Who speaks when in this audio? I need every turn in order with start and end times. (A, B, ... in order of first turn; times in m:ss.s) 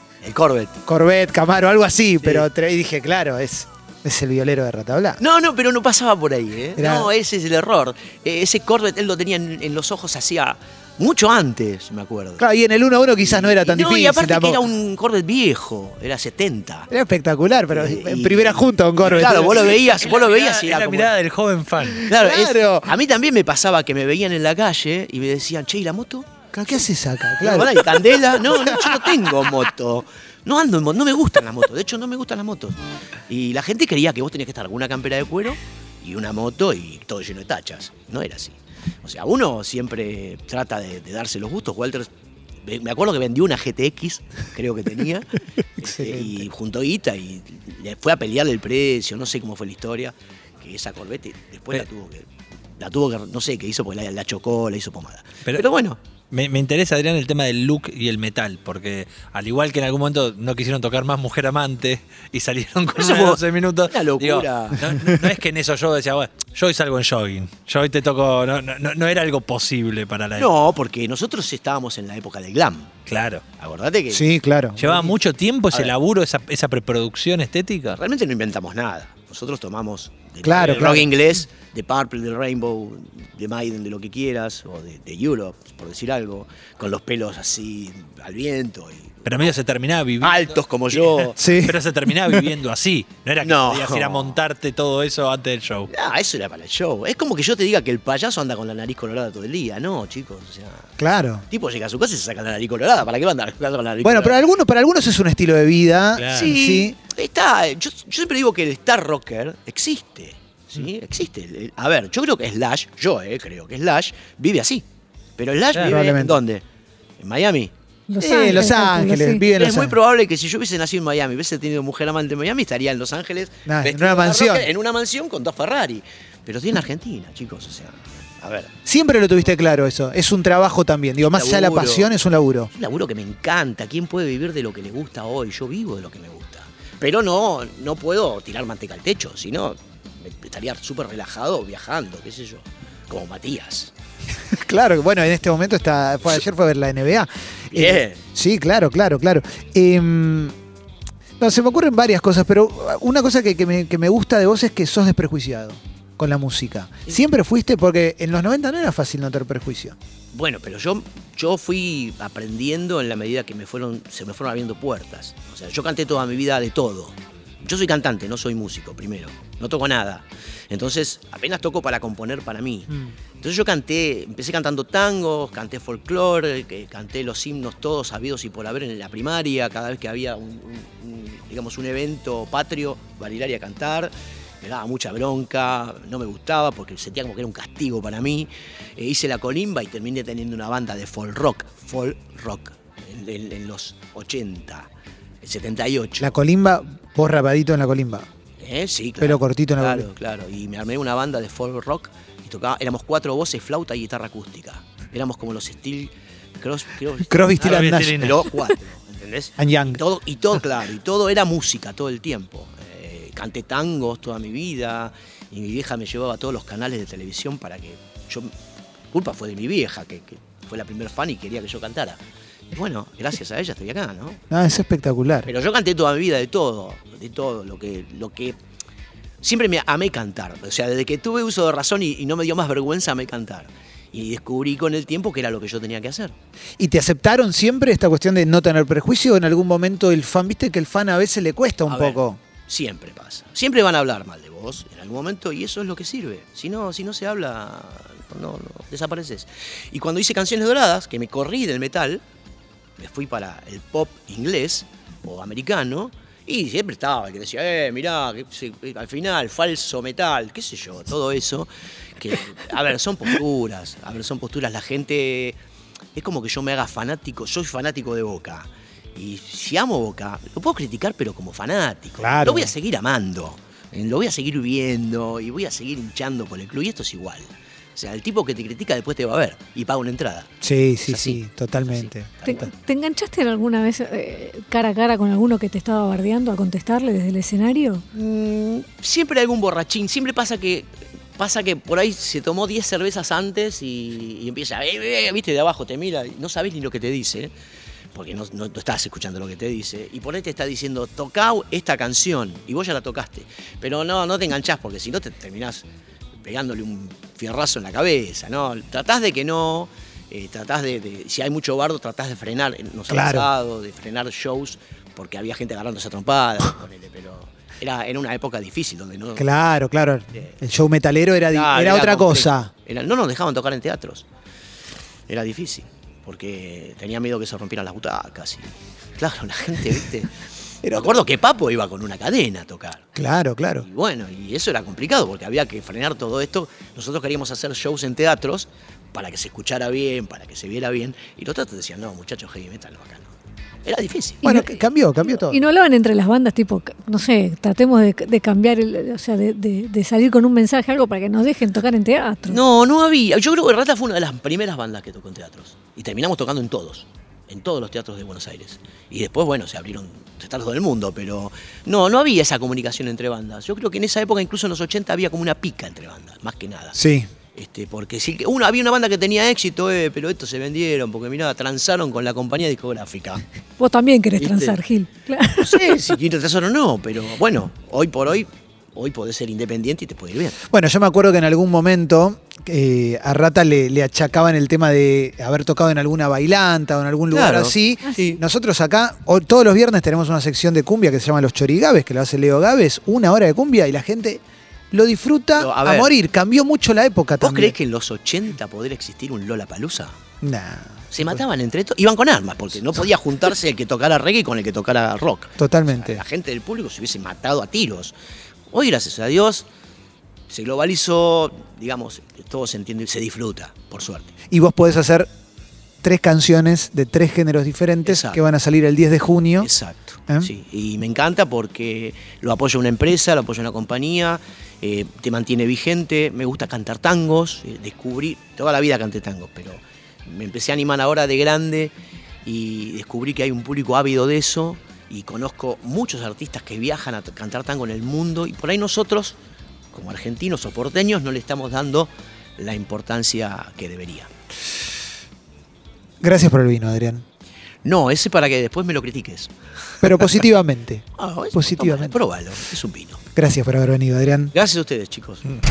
0:00.2-0:00.8 A
0:00.9-0:05.2 B
0:05.2-0:12.4 A
0:06.8-0:07.1 B
0:12.4-0:14.6 B
0:13.2-0:16.9 A
0:16.9-0:19.7 B
0:17.7-0:21.1 A
0:19.7-0:22.1 C
0:22.0-0:26.3 A
0:22.1-0:22.9 B
0:26.5-0:28.9 B
0:27.4-0:42.1 A
0:42.6-0:52.3 A
0:45.8-0:46.5 B
0:52.8-0:56.0 A
0:56.3-1:10.5 C
1:03.0-1:05.0 A
1:10.4-1:13.0 A
1:13.1-1:13.4 C
1:13.6-1:14.3 A
1:14.1-1:15.1 B
1:14.8-1:18.0 C
1:17.9-1:29.5 A
1:20.4-1:21.1 B
1:20.6-1:21.0 C
1:29.2-1:35.9 C
1:30.2-1:31.4 A
1:31.4-1:31.8 B
1:33.4-1:34.4 A
1:35.9-1:40.9 A
1:41.0-1:41.4 B
1:41.5-1:44.4 A
1:44.0-1:47.0 B
1:46.2-1:46.5 C
1:46.3-1:54.8 A
1:55.4-1:56.6 A
1:55.8-1:56.4 B
1:57.2-1:57.7 A
1:58.1-1:59.4 D
1:58.2-2:00.0 B
1:59.5-2:08.7 A
2:03.7-2:04.7 B
2:08.8-2:12.7 B
2:11.2-2:12.1 A
2:12.7-2:23.9 A
2:24.5-2:30.5 B
2:27.7-2:28.2 A
2:31.4-2:40.0 B
2:40.3-3:14.9 A
3:15.4-3:16.4 A
3:16.2-3:18.3 B
3:18.6-3:38.5 A
3:19.2-3:20.1 B
3:27.3-3:28.3 B
3:27.6-3:28.5 C
3:29.6-3:30.0 B
3:39.1-3:44.4 A
3:44.5-3:45.5 B
3:45.5-3:48.6 A
3:49.4-3:56.4 A
3:56.8-4:02.4 B
4:01.9-4:12.2 A
4:13.0-4:25.6 A
4:26.2-4:40.5 A
4:32.2-4:32.7 B
4:40.6-4:42.7 B
4:41.1-4:42.7 A
4:42.5-4:48.0 D
4:48.1-4:57.5 A
4:58.1-5:05.8 A
5:06.4-5:19.5 A
5:13.1-5:13.5 B
5:19.4-5:22.7 B
5:21.5-5:24.3 A
5:25.3-5:33.0 A
5:30.8-5:31.1 B
5:33.2-5:33.9 B
5:33.8-5:43.3 A
5:43.8-5:44.6 A
5:44.4-5:45.6 B
5:45.3-5:52.6 D
5:52.5-6:07.0 A
6:07.0-6:07.3 B
6:07.6-6:13.4 A
6:13.8-6:15.9 D
6:14.4-6:14.8 A
6:15.6-6:20.6 A
6:20.7-6:37.8 B
6:27.3-6:28.4 A
6:35.6-6:36.2 A
6:37.4-6:40.2 A
6:40.4-6:41.4 B
6:41.1-6:48.1 A
6:45.6-6:46.2 B
6:48.7-6:49.7 A
6:50.5-6:54.3 A
6:54.5-6:55.3 B
6:56.0-6:59.7 B
6:58.0-6:58.4 A
6:59.6-7:11.9 A
7:12.4-7:19.4 A
7:19.9-7:24.3 A
7:26.2-7:27.2 B
7:27.8-7:29.5 A
7:30.0-7:32.2 B
7:31.2-7:33.2 A
7:33.4-7:34.5 B
7:34.5-7:35.5 A